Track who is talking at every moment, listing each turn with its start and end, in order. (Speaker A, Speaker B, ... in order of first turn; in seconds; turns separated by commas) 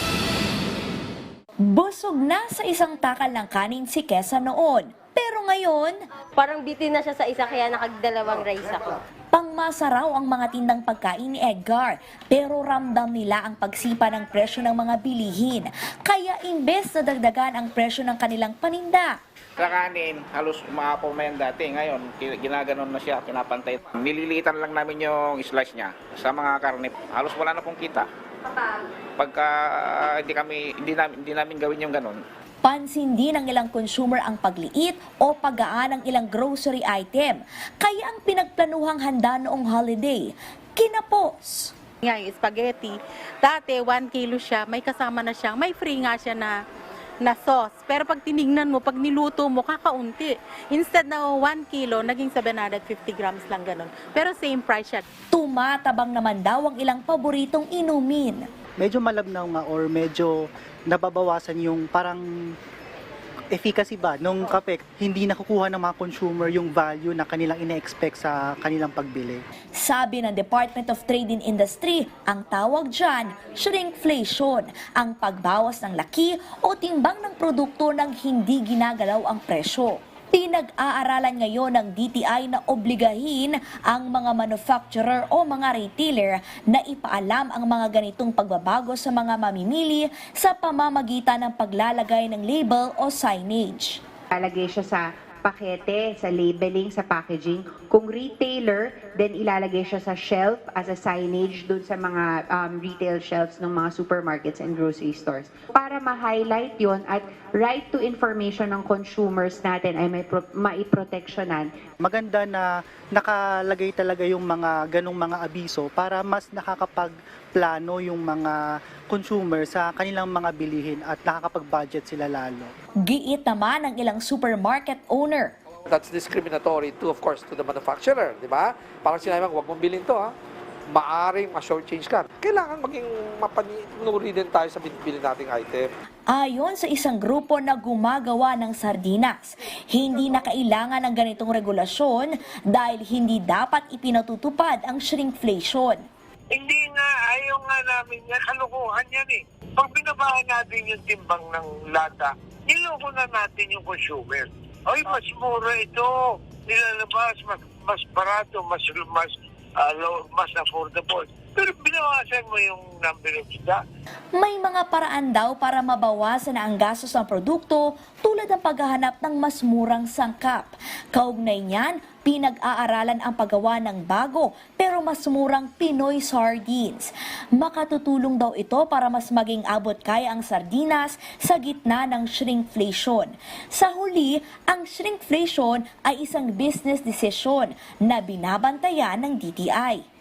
Speaker A: 1.6-6.0, Speaker B: 6.4-9.0, Speaker A: 9.3-19.2, Speaker C: 19.6-28.6, Speaker C: 29.2-32.2, Speaker A: 32.6-41.7, Speaker D: 42.0-46.6, Speaker D: 47.2-55.0, Speaker A: 55.3-58.4, Speaker E: 58.8-60.3, Speaker E: 60.9-62.5, Speaker E: 63.5-69.4, Speaker A: 69.8-94.0, Speaker F: 94.3-111.7, Speaker E: 112.0-112.7, Speaker E: 113.2-118.6, Speaker E: 119.1-122.7, Speaker A: 123.0-125.5, Speaker G: 125.9-130.3, Speaker G: 130.9-135.9, Speaker A: 136.3-146.0, Speaker H: 146.5-163.8, Speaker A: 164.3-190.1